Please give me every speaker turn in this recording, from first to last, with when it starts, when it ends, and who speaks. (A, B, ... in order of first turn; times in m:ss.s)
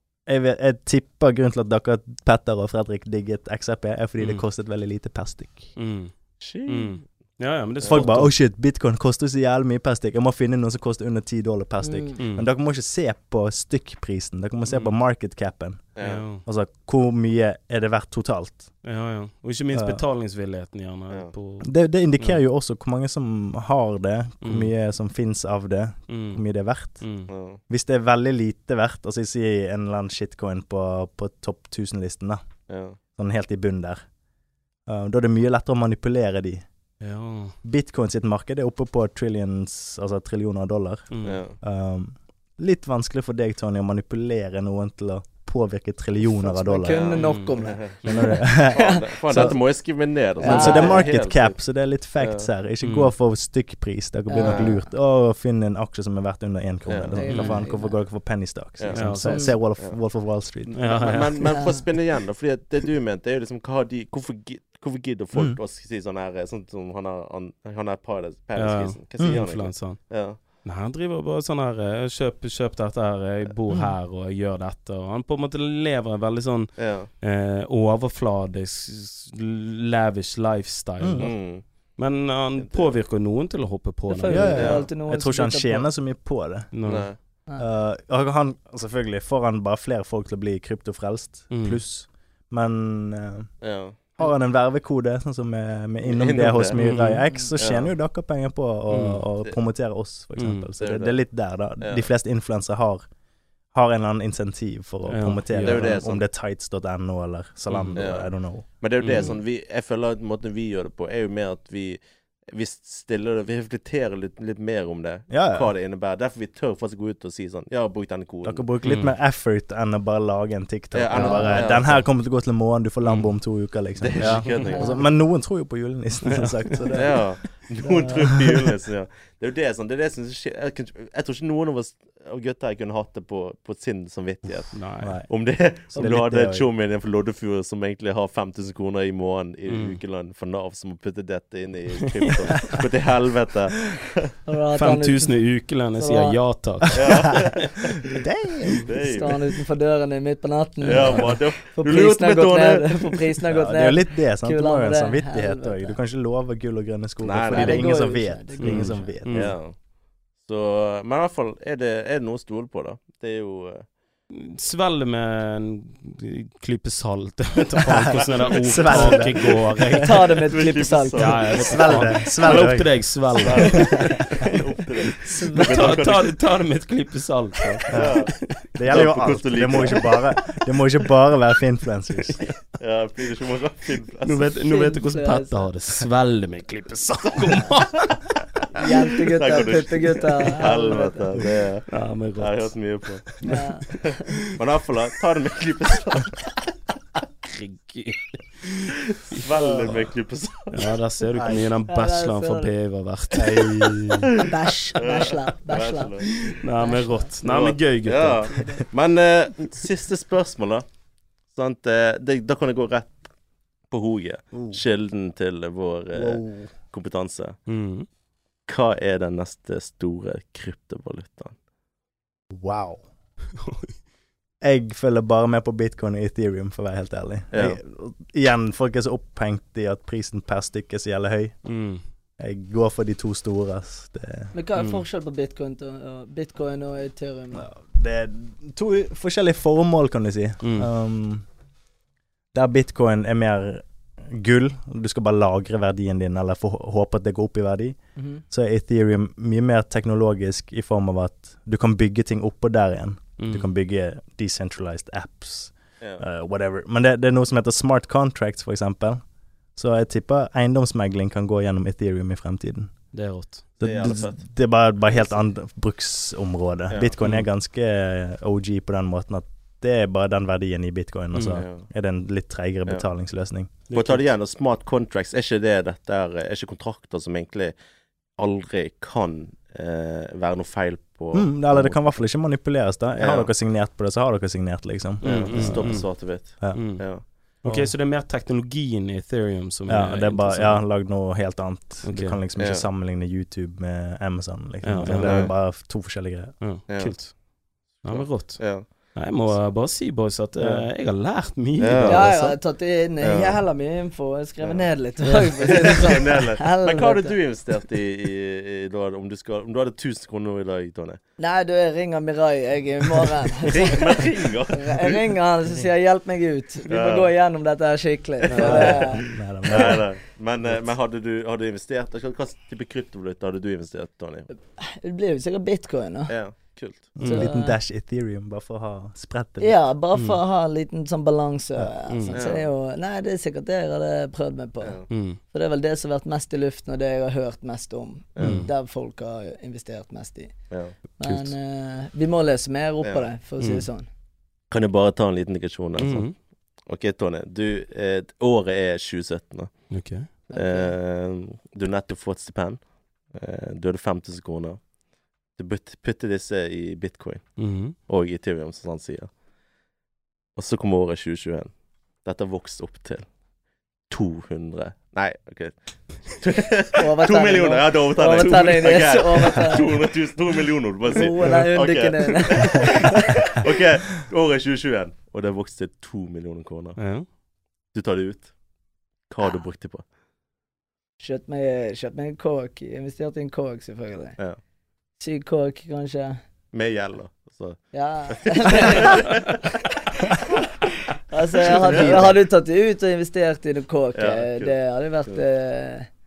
0:00.3-0:05.7 A
0:04.2-0:04.4 B
0:05.8-0:06.1 B
0:06.4-0:07.0 C
0:06.7-0:08.4 B
0:07.8-0:08.2 C
0:07.9-0:15.8 A
0:11.8-0:12.2 D
0:12.2-0:12.5 B
0:14.7-0:14.9 B
0:16.0-0:16.2 C
0:16.0-0:16.4 B
0:16.4-0:18.7 A
0:18.8-0:22.4 B
0:19.7-0:20.0 A
0:21.6-0:27.0 A
0:24.4-0:24.7 B
0:26.1-0:26.4 B
0:27.0-0:27.3 B
0:27.3-0:27.6 C
0:27.7-0:32.4 A
0:32.7-0:33.0 C
0:33.2-0:34.0 A
0:34.9-0:36.6 A
0:37.0-0:37.6 B
0:37.6-0:41.1 A
0:41.1-0:41.4 B
0:41.2-0:41.6 C
0:41.6-0:47.2 A
0:46.3-0:49.6 D
0:46.8-0:48.1 C
0:47.2-0:47.6 B
0:48.1-0:49.6 A
0:48.6-0:51.6 C
0:50.4-0:51.1 D
0:50.4-1:00.8 A
0:52.2-0:52.5 C
0:52.8-0:53.1 B
0:54.3-0:54.9 D
0:54.4-0:54.8 C
0:56.9-0:57.2 C
0:57.2-0:58.0 D
0:57.3-0:57.6 B
0:58.8-0:59.1 C
0:58.9-0:59.6 B
0:59.2-0:59.6 D
1:00.6-1:10.4 C
1:00.7-1:01.7 B
1:01.5-1:01.8 D
1:08.6-1:10.0 B
1:10.6-1:21.4 B
1:13.7-1:14.0 A
1:16.8-1:17.1 C
1:21.0-1:21.3 A
1:21.2-1:21.6 C
1:22.0-1:24.7 B
1:22.6-1:23.0 C
1:24.1-1:25.9 D
1:24.3-1:26.7 A
1:24.6-1:24.9 C
1:26.7-1:27.1 B
1:26.8-1:27.2 C
1:27.6-1:33.5 A
1:31.5-1:31.8 B
1:33.6-1:34.0 C
1:34.2-1:43.0 A
1:36.0-1:36.8 C
1:36.8-1:37.2 B
1:37.6-1:37.9 C
1:38.9-1:39.2 B
1:40.4-1:40.7 B
1:40.8-1:41.2 C
1:41.8-1:42.1 C
1:43.7-1:48.6 A
1:45.1-1:46.0 B
1:45.6-1:46.2 C
1:47.7-1:48.0 B
1:48.0-1:52.0 C
1:49.0-1:49.3 B
1:52.5-1:58.7 C
1:55.3-1:55.7 A
1:58.4-2:07.3 A
1:58.8-1:59.2 B
2:00.9-2:02.1 C
2:01.2-2:01.6 B
2:01.2-2:01.6 D
2:04.0-2:05.0 C
2:04.6-2:05.0 D
2:06.2-2:06.8 B
2:06.9-2:24.3 C
2:07.8-2:08.3 A
2:14.7-2:15.1 B
2:15.0-2:15.3 A
2:15.9-2:16.7 A
2:19.7-2:20.0 B
2:24.5-2:25.4 D
2:24.8-2:27.6 B
2:26.0-2:26.4 D
2:26.9-2:28.1 C
2:28.2-2:28.9 A
2:28.8-2:29.4 C
2:29.0-2:36.0 D
2:30.8-2:31.3 B
2:30.8-2:33.1 C
2:33.5-2:39.5 A
2:37.2-2:38.0 C
2:37.5-2:39.1 D
2:38.6-2:39.5 B
2:39.3-2:39.8 C
2:40.4-2:43.9 C
2:44.3-2:50.5 B
2:47.8-2:50.1 A
2:48.8-2:49.3 C
2:50.0-2:51.4 D
2:50.5-2:52.1 C
2:51.1-2:54.5 B
2:51.6-2:52.9 A
2:53.4-2:56.4 C
2:55.2-2:56.0 D
2:55.5-2:59.1 B
2:57.9-3:00.1 C
2:57.9-2:58.2 A
2:58.8-3:02.5 A
3:02.8-3:04.6 C
3:04.2-3:08.4 B
3:04.6-3:05.7 D
3:07.4-3:08.2 C
3:08.7-3:11.3 D
3:08.8-3:13.3 C
3:11.9-3:12.8 B
3:13.4-3:14.2 D
3:14.5-3:16.5 C
3:17.5-3:20.1 B
3:19.3-3:21.0 C
3:20.7-3:24.0 B
3:21.4-3:21.7 A
3:21.9-3:22.7 D
3:23.3-3:24.3 A
3:24.4-3:26.2 D
3:25.0-3:26.3 C
3:26.3-3:28.5 B
3:26.8-3:27.3 D
3:27.4-3:30.8 C
3:28.5-3:28.8 D
3:31.5-3:33.3 C
3:33.9-3:37.6 C
3:34.5-3:34.8 A
3:36.1-3:36.7 A
3:37.7-3:38.1 B
3:38.7-3:41.6 C
3:42.5-3:43.0 A
3:43.6-3:43.9 B
3:44.6-3:51.6 A
3:47.5-3:47.8 C
3:51.6-3:52.0 B
3:52.4-3:54.5 A
3:54.5-3:57.6 D
3:54.8-3:55.0 B
3:57.5-4:01.4 A
4:00.6-4:00.9 B
4:02.5-4:08.0 A
4:08.2-4:08.4 D
4:08.5-4:19.2 A
4:13.4-4:13.7 B
4:19.8-4:22.9 A
4:23.1-4:23.7 B
4:23.8-4:33.9 A
4:23.8-4:24.4 C
4:25.1-4:25.4 C
4:31.4-4:31.6 B
4:31.5-4:31.8 C
4:33.9-4:34.2 B
4:33.9-4:37.7 C
4:38.4-4:42.0 C
4:41.3-4:46.1 A
4:43.2-4:43.5 C
4:45.2-4:47.1 B
4:45.2-4:47.9 C
4:47.6-4:50.8 B
4:49.9-4:56.5 A
4:52.0-4:52.4 B
4:52.6-4:52.8 C
4:54.8-4:55.6 B
4:55.1-4:55.5 C
4:56.6-4:57.4 B
4:56.9-4:57.2 C
4:58.0-4:58.9 C
4:58.0-5:02.6 B
5:01.8-5:02.4 C
5:02.1-5:07.3 D
5:03.2-5:03.6 C
5:04.6-5:11.2 C
5:11.4-5:19.3 D
5:13.7-5:15.3 C
5:16.9-5:17.3 C
5:18.4-5:24.5 C
5:18.5-5:19.2 B
5:19.2-5:20.0 A
5:24.8-5:26.4 D
5:26.3-5:27.1 C
5:27.2-5:29.8 A
5:27.2-5:27.5 B
5:27.3-5:27.8 D
5:29.6-5:40.5 D
5:30.1-5:30.4 B
5:32.1-5:32.4 B
5:32.3-5:32.7 C
5:34.8-5:35.1 C
5:35.1-5:35.4 B
5:38.4-5:38.7 C
5:38.4-5:38.7 B
5:41.2-5:44.1 D
5:41.2-5:41.5 B
5:43.6-5:43.9 B
5:44.7-5:46.3 C
5:46.0-5:46.3 B
5:46.9-5:49.7 C
5:49.9-5:50.3 B
5:50.5-5:54.8 C
5:50.5-5:50.9 D
5:55.6-5:59.3 C
5:57.6-5:58.0 B
6:00.6-6:01.7 C
6:02.2-6:03.2 C
6:04.1-6:05.8 C
6:06.3-6:17.0 C
6:07.0-6:10.1 D
6:08.4-6:09.0 B
6:11.1-6:13.6 D
6:17.0-6:17.2 B
6:17.9-6:18.5 C
6:19.3-6:20.0 C
6:21.2-6:24.4 D
6:25.2-6:26.4 D
6:26.7-6:29.8 C
6:27.9-6:29.6 D
6:30.3-6:30.6 D
6:31.3-6:36.1 D
6:31.6-6:32.4 C
6:31.9-6:32.3 A
6:34.2-6:34.8 C